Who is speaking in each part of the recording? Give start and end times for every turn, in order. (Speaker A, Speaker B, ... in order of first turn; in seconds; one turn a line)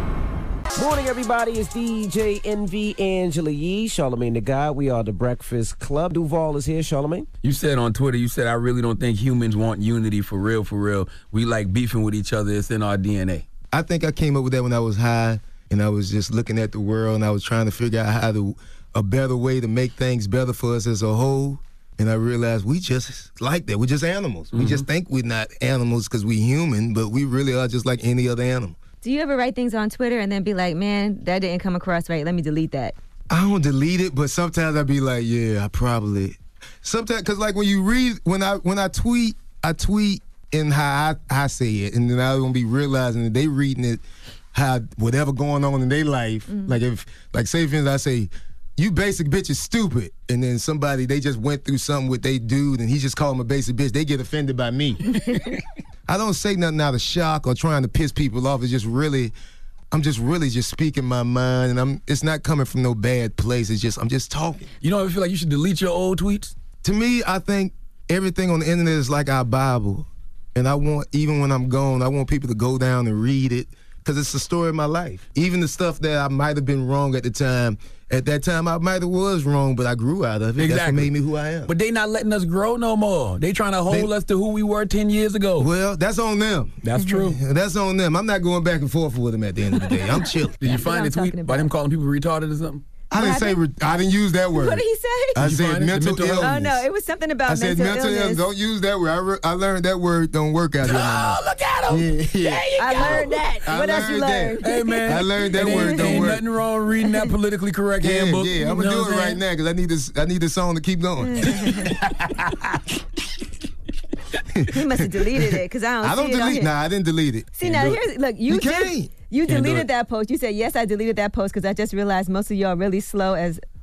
Speaker A: 0.8-7.3
Speaker B: 7.4-13.4
Speaker C: 13.7-28.8
Speaker B: 24.5-24.9
Speaker D: 29.0-33.0
Speaker C: 33.3-44.0
Speaker C: 44.5-55.1
Speaker C: 56.1-59.3
Speaker C: 59.9-64.7
Speaker B: 64.8-66.5
Speaker C: 66.8-81.7
Speaker B: 80.6-81.1
Speaker B: 81.7-85.7
Speaker C: 85.6-90.6
Speaker B: 86.8-87.4
Speaker B: 90.6-92.8
Speaker D: 90.6-91.7
Speaker C: 93.1-96.8
Speaker D: 93.1-93.6
Speaker D: 94.5-95.5
Speaker B: 95.4-96.6
Speaker D: 96.4-98.5
Speaker C: 97.5-106.4
Speaker B: 100.8-103.5
Speaker D: 102.8-106.3
Speaker B: 104.6-109.4
Speaker D: 107.0-107.3
Speaker C: 108.0-112.9
Speaker D: 111.3-111.9
Speaker C: 114.5-117.6
Speaker D: 114.7-116.7
Speaker D: 117.6-123.6
Speaker B: 117.6-118.0
Speaker C: 118.5-119.1
Speaker B: 119.5-119.9